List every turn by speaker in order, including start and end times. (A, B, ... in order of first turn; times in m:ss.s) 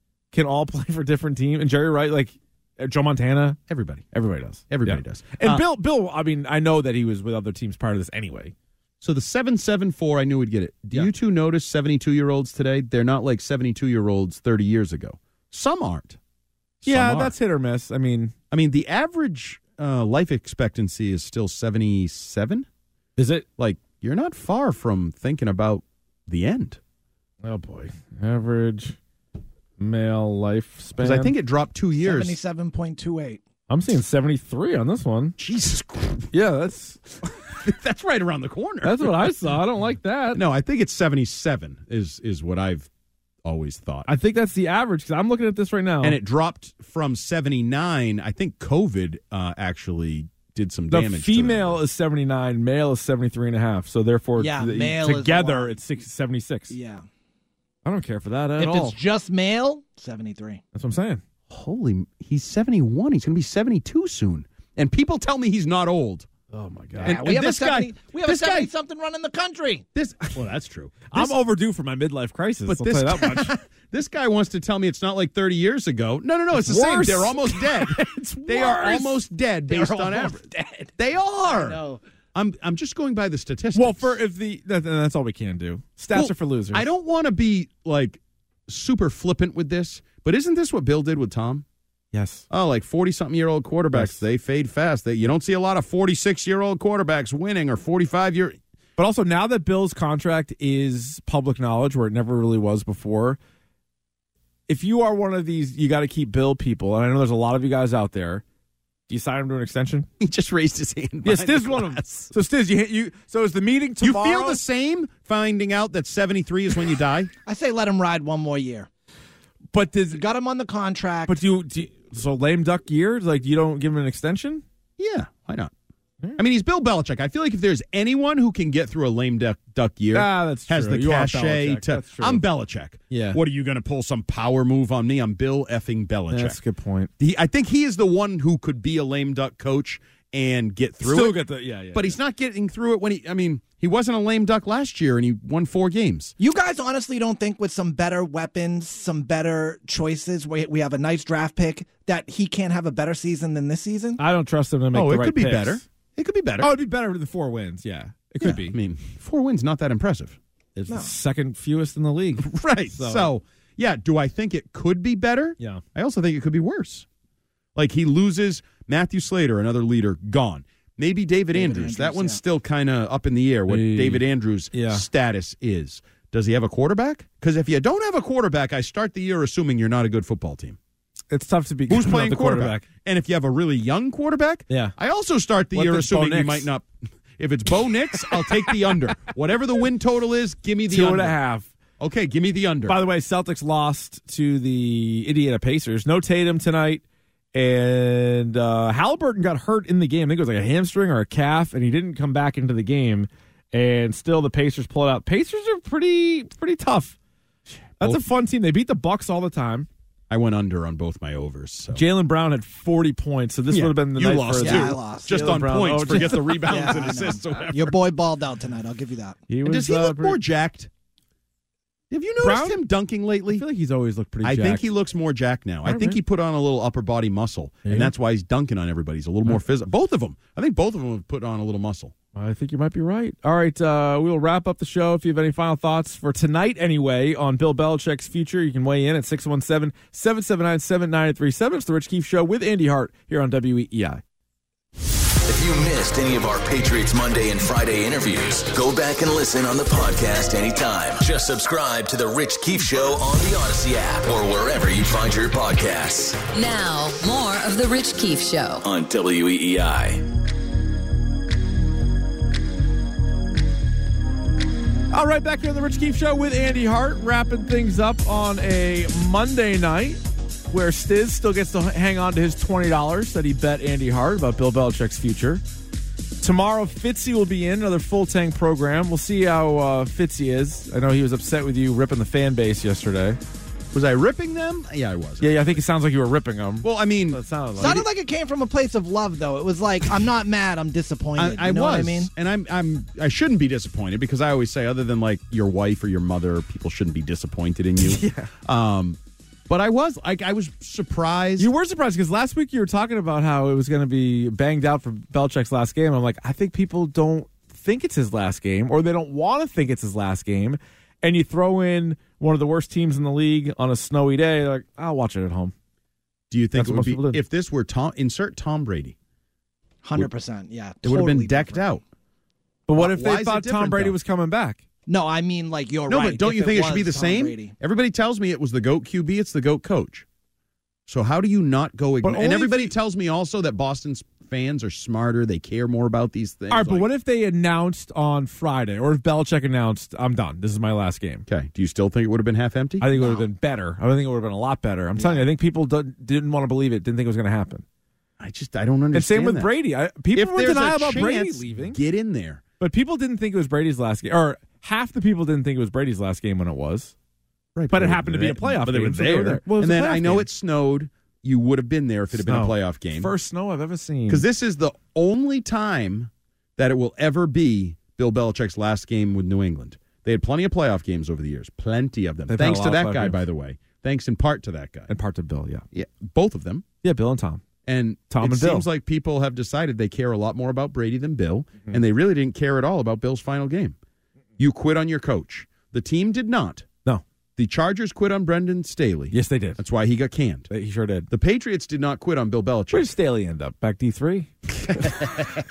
0:00.3-0:03.6 A
0:03.7-0:04.1 B
0:04.1-0:08.5 A
0:04.7-0:05.6 B
0:09.0-0:16.2 B
0:16.8-0:17.3 B
0:16.8-0:18.3 A
0:18.5-0:22.7 B
0:23.2-0:23.4 A
0:23.6-0:26.8 B
0:27.4-0:29.0 A
0:29.8-0:31.3 A
0:31.0-0:32.4 B
0:32.0-0:33.4 C
0:33.7-0:35.4 A
0:35.4-0:36.3 B
0:36.3-0:37.0 A
0:37.2-0:39.3 B
0:38.8-0:40.4 A
0:40.3-0:42.9 B
0:43.4-0:44.1 B
0:44.0-0:46.2 A
0:46.0-0:51.8 B
0:50.9-0:56.7 A
0:54.4-0:55.7 C
0:56.7-0:57.0 C
0:57.8-0:59.0 A
0:58.6-1:00.6 C
1:00.7-1:01.2 A
1:01.5-1:06.3 B
1:06.5-1:07.2 A
1:07.0-1:09.8 C
1:07.0-1:08.7 B
1:09.9-1:11.3 B
1:11.1-1:13.5 A
1:12.7-1:20.4 B
1:16.5-1:19.2 A
1:19.8-1:20.9 C
1:21.0-1:21.8 B
1:21.5-1:22.0 C
1:22.3-1:24.2 B
1:23.7-1:26.9 A
1:26.1-1:31.6 B
1:32.1-1:32.4 A
1:32.5-1:38.6 B
1:33.9-1:34.2 A
1:39.0-1:43.4 A
1:44.7-1:48.4 A
1:49.1-1:50.1 A
1:50.2-1:52.3 B
1:51.2-1:54.6 A
1:54.0-1:57.3 B
1:57.4-1:58.9 C
1:59.7-2:00.2 A
2:00.1-2:01.4 C
2:01.3-2:04.6 A
2:05.0-2:05.7 B
2:06.4-2:16.6 B
2:10.1-2:12.4 A
2:13.1-2:13.4 A
2:16.3-2:17.1 A
2:17.2-2:26.3 B
2:21.0-2:22.2 A
2:26.4-2:34.2 C
2:34.2-2:35.8 A
2:34.9-2:36.7 B
2:36.6-2:38.8 A
2:38.4-2:40.4 B
2:40.8-2:43.3 A
2:42.4-2:47.0 B
2:47.7-3:00.8 B
2:51.5-2:52.4 C
2:53.7-2:55.0 A
3:01.3-3:02.8 A
3:01.9-3:11.4 B
3:05.7-3:06.7 A
3:10.9-3:11.7 A
3:12.0-3:13.0 B
3:12.9-3:17.0 A
3:17.5-3:27.1 A
3:28.0-3:29.9 A
3:30.3-3:32.0 B
3:31.9-3:37.2 A
3:33.7-3:38.0 B
3:34.6-3:35.6 C
3:36.1-3:39.4 C
3:39.5-3:40.4 A
3:39.6-3:40.9 B
3:42.1-3:43.6 B
3:42.4-3:42.8 A
3:43.5-3:44.9 A
3:44.4-3:52.1 B
3:45.8-3:46.2 A
3:47.8-3:48.1 A
3:52.3-4:04.2 A
4:05.4-4:16.4 D
4:16.5-4:18.8 E
4:18.8-4:20.2 D
4:25.1-4:35.6 A
4:36.4-4:43.4 A
4:43.9-4:45.8 B
4:45.4-4:48.0 A
4:46.8-4:48.0 B
4:47.8-4:52.3 C
4:51.4-4:59.2 B
4:58.0-4:58.5 A
4:59.7-5:01.7 B
5:01.6-5:15.7 A
5:16.5-5:19.1 B
5:16.8-5:17.4 A
5:20.0-5:21.8 C
5:21.0-5:22.0 B
5:22.9-5:24.8 A
5:22.9-5:24.2 B
5:25.1-5:27.7 C
5:26.1-5:30.2 B
5:31.1-5:37.1 B
5:32.2-5:32.9 A
5:36.7-5:41.4 A
5:41.5-5:43.4 B
5:43.0-5:47.8 A
5:45.2-5:45.4 B
5:48.4-5:49.7 B
5:49.1-5:52.0 A
5:50.3-5:52.6 B
5:52.8-5:57.1 A
5:57.7-6:03.3 B
5:57.9-6:00.5 A
6:02.4-6:04.4 A
6:04.3-6:15.1 B
6:12.5-6:13.4 A
6:15.1-6:15.8 A
6:15.9-6:16.8 B
6:17.0-6:17.6 A
6:17.8-6:24.0 B
6:18.3-6:18.9 A
6:24.6-6:26.9 B
6:27.6-6:30.7 B
6:29.3-6:29.8 A
6:30.7-6:31.3 A
6:31.3-6:33.1 B
6:32.9-6:35.4 A
6:35.0-6:35.3 B